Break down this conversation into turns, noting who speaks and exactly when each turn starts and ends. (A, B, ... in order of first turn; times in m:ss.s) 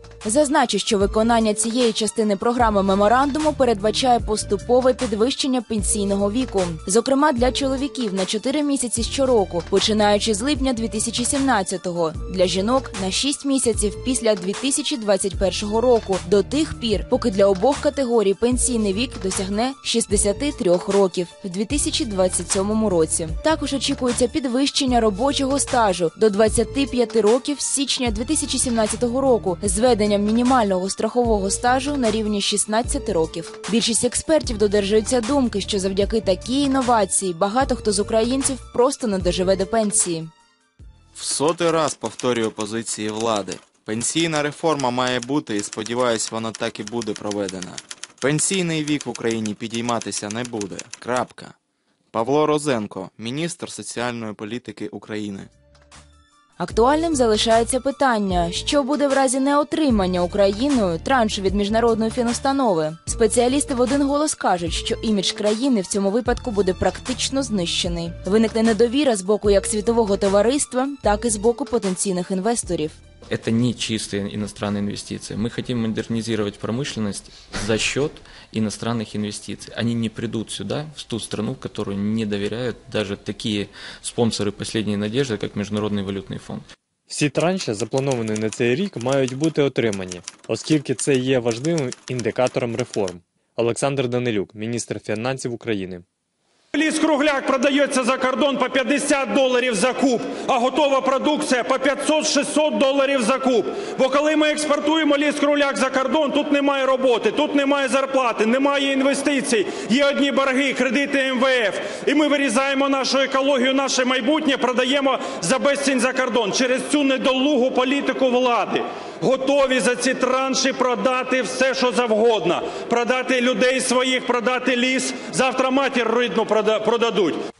0:00.2-0:40.3 A
0:41.2-0:51.6 B
0:52.1-0:55.5 B
0:56.6-1:13.0 A
1:13.3-1:26.6 C
1:27.1-1:36.0 D
1:36.7-2:07.4 E